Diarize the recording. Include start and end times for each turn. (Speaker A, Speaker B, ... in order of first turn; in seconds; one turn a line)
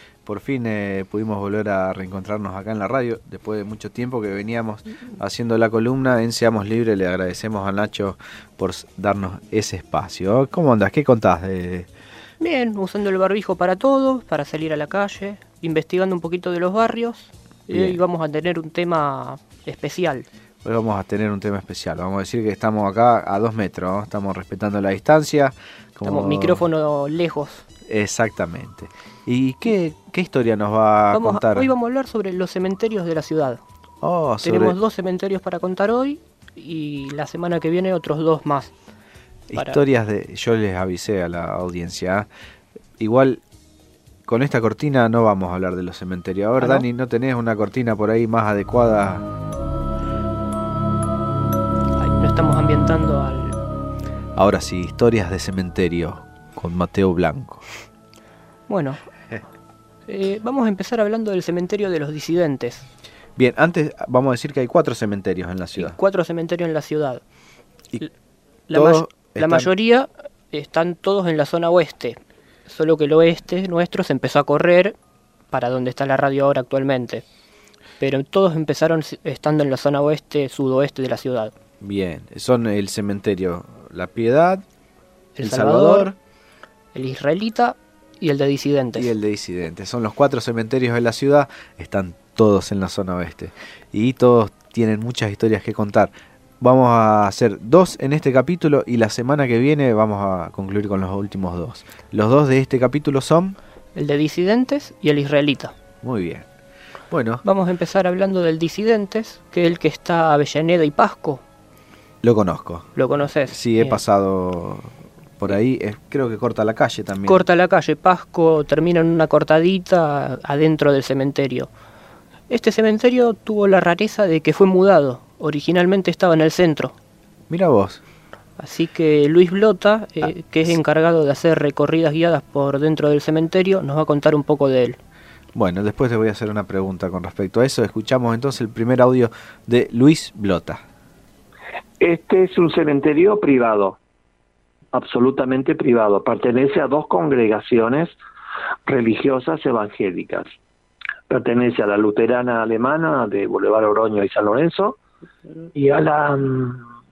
Speaker A: 0.3-11.9
Speaker B: 12.4-20.3
Speaker A: 17.7-18.0
Speaker A: 20.6-26.7
Speaker B: 26.0-27.7
Speaker A: 27.9-31.7
Speaker B: 31.1-33.6
Speaker A: 34.0-34.8
Speaker B: 34.4-38.7
Speaker A: 39.5-42.3
Speaker B: 39.5-39.8
Speaker A: 43.0-43.4
Speaker A: 44.3-49.3
Speaker B: 46.6-46.9
Speaker B: 52.0-53.6
Speaker A: 54.4-57.6
Speaker B: 58.7-59.0
Speaker B: 60.1-62.9
Speaker A: 63.4-66.0
Speaker B: 65.8-67.2
Speaker B: 68.7-74.9
Speaker A: 68.7-69.7
Speaker B: 75.5-77.2
Speaker B: 78.0-81.5
Speaker A: 81.8-84.6
Speaker B: 85.4-86.1
Speaker A: 85.4-86.2
Speaker B: 86.9-89.1
Speaker A: 89.0-103.6
Speaker B: 104.0-105.7
Speaker A: 106.0-106.5
Speaker A: 107.1-107.4
Speaker B: 107.4-111.4
Speaker A: 112.2-112.9
Speaker B: 113.0-114.0
Speaker A: 113.5-117.5
Speaker B: 117.3-121.7
Speaker B: 122.5-127.0
Speaker A: 127.5-128.0
Speaker B: 128.6-135.0
Speaker A: 130.2-130.7
Speaker A: 135.6-140.8
Speaker C: 142.0-144.0
Speaker C: 144.9-148.2
Speaker C: 148.9-150.5
Speaker C: 151.3-155.0
Speaker C: 155.7-156.8